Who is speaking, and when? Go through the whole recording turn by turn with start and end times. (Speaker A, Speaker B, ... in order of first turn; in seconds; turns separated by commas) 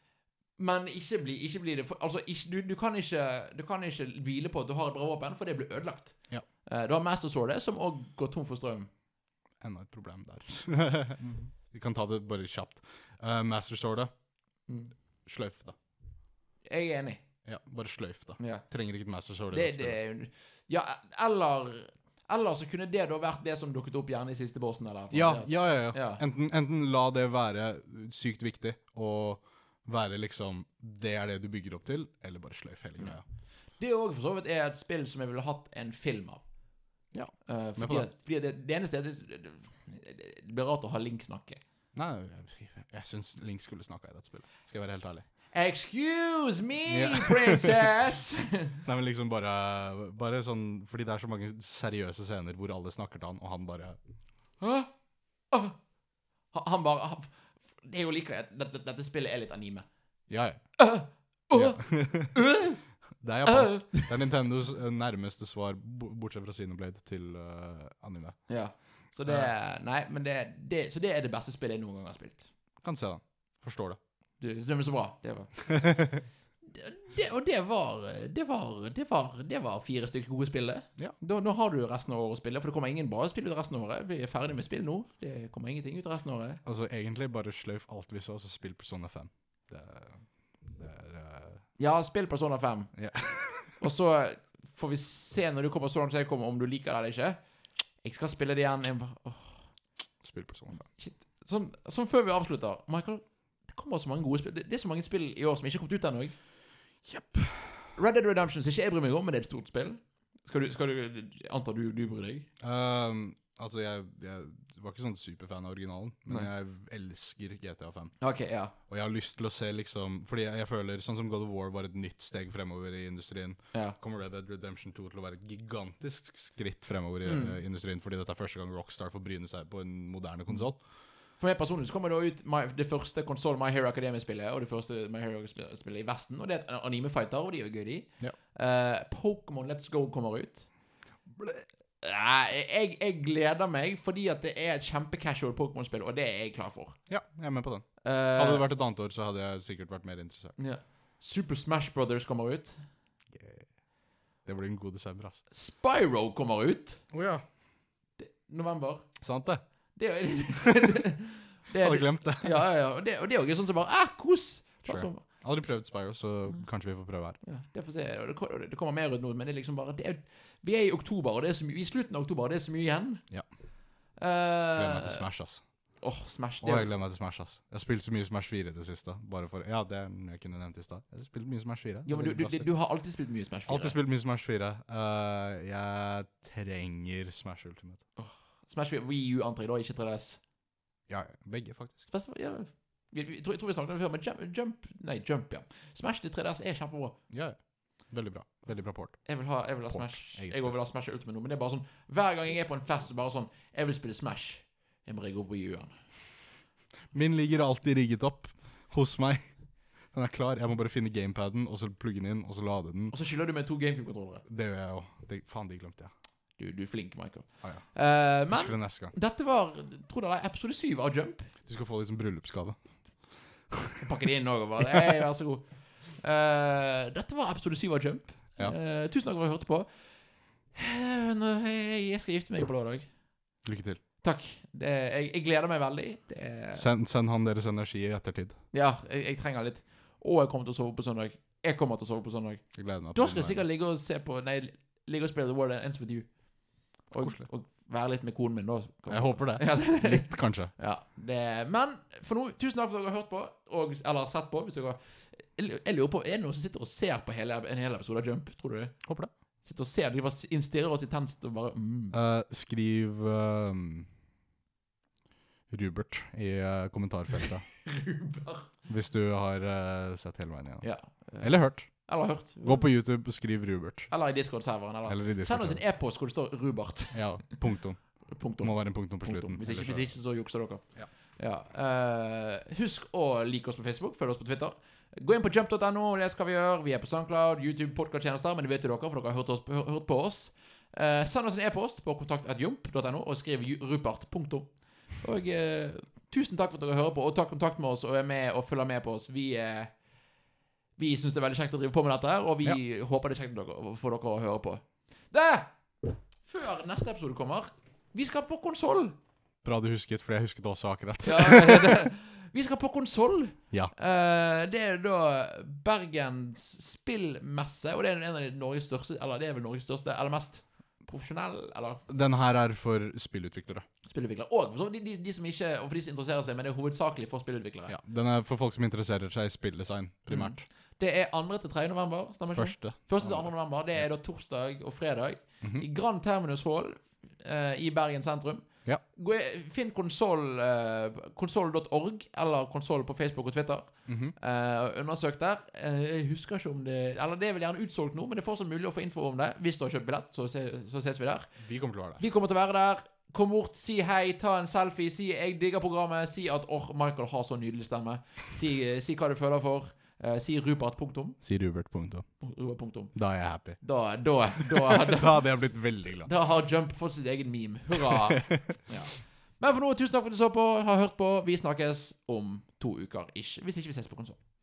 Speaker A: 0.6-8.9, Speaker B: 9.6-14.1, Speaker A: 14.7-14.9, Speaker B: 15.3-15.8, Speaker A: 16.7-17.2, Speaker B: 17.5-20.0, Speaker A: 18.4-18.6, Speaker A: 19.5-26.2, Speaker B: 25.1-33.2, Speaker A: 33.8-36.4, Speaker B: 37.1-38.1, Speaker A: 37.5-41.6, Speaker B: 41.9-45.3, Speaker A: 45.5-48.8, Speaker B: 46.9-47.8, Speaker B: 48.9-54.0, Speaker A: 54.6-54.9, Speaker A: 55.5-55.8, Speaker A: 56.5-59.9, Speaker B: 60.3-60.6, Speaker A: 60.8-62.8, Speaker B: 61.5-62.4, Speaker B: 63.2-68.4, Speaker A: 63.5-64.2, Speaker A: 68.5-72.5, Speaker B: 72.8-74.0, Speaker A: 74.4-76.1, Speaker B: 75.8-76.1, Speaker A: 76.7-86.6, Speaker B: 86.7-91.6, Speaker A: 91.8-92.9, Speaker B: 93.0-93.8, Speaker A: 93.8-97.4, Speaker A: 98.0-99.6, Speaker B: 100.2-100.9, Speaker A: 100.9-106.4, Speaker B: 107.0-107.9, Speaker A: 108.0-112.5, Speaker B: 112.6-118.2, Speaker A: 118.2-118.7, Speaker B: 118.9-130.8, Speaker A: 127.2-127.6, Speaker A: 131.4-140.7, Speaker B: 141.4-141.7, Speaker A: 142.0-147.0, Speaker B: 147.1-150.6, Speaker A: 148.0-148.7, Speaker A: 150.6-152.9, Speaker B: 153.3-153.7, Speaker B: 154.4-155.4, Speaker A: 155.5-157.1, Speaker B: 157.1-157.4, Speaker A: 158.2-159.1, Speaker B: 159.2-159.6, Speaker A: 160.0-165.2, Speaker B: 161.8-162.6, Speaker B: 164.9-167.4, Speaker A: 167.4-173.2, Speaker A: 174.2-175.3, Speaker B: 174.8-175.6, Speaker A: 176.0-176.9, Speaker B: 176.6-182.7, Speaker A: 182.1-184.0, Speaker B: 183.7-188.0, Speaker A: 188.2-190.4, Speaker B: 191.1-192.1, Speaker A: 192.1-197.2, Speaker B: 197.3-199.3, Speaker A: 199.2-206.0, Speaker B: 199.9-200.7, Speaker B: 207.1-209.5, Speaker B: 210.1-213.2, Speaker A: 213.1-214.4, Speaker B: 214.5-216.1, Speaker A: 216.6-221.5, Speaker B: 217.6-217.9, Speaker B: 218.5-219.2, Speaker B: 221.7-222.8, Speaker B: 223.7-224.0, Speaker A: 224.0-230.1, Speaker A: 230.7-233.1, Speaker B: 233.6-234.0, Speaker A: 234.2-236.8, Speaker B: 236.7-238.6, Speaker A: 238.7-246.3, Speaker B: 242.8-243.6, Speaker A: 247.1-259.0, Speaker B: 247.2-247.5, Speaker B: 249.1-250.7, Speaker B: 259.1-259.3, Speaker A: 259.6-262.2, Speaker B: 262.1-264.1, Speaker B: 265.7-267.7, Speaker A: 267.8-268.7, Speaker B: 268.9-274.1, Speaker A: 270.8-272.9, Speaker A: 274.1-277.6, Speaker B: 275.1-275.8, Speaker B: 277.1-280.1, Speaker A: 278.3-299.9, Speaker A: 301.0-309.1, Speaker B: 309.6-312.0, Speaker A: 311.2-322.1, Speaker B: 322.1-323.9, Speaker A: 324.1-327.9, Speaker B: 327.9-330.7, Speaker A: 330.3-351.5, Speaker B: 332.6-334.1, Speaker B: 344.1-344.3, Speaker B: 351.6-352.2, Speaker A: 352.2-361.4, Speaker B: 361.4-362.3, Speaker A: 362.4-363.2, Speaker B: 363.1-363.8, Speaker A: 363.8-365.5, Speaker B: 364.6-366.3, Speaker A: 366.2-374.4, Speaker B: 368.1-368.8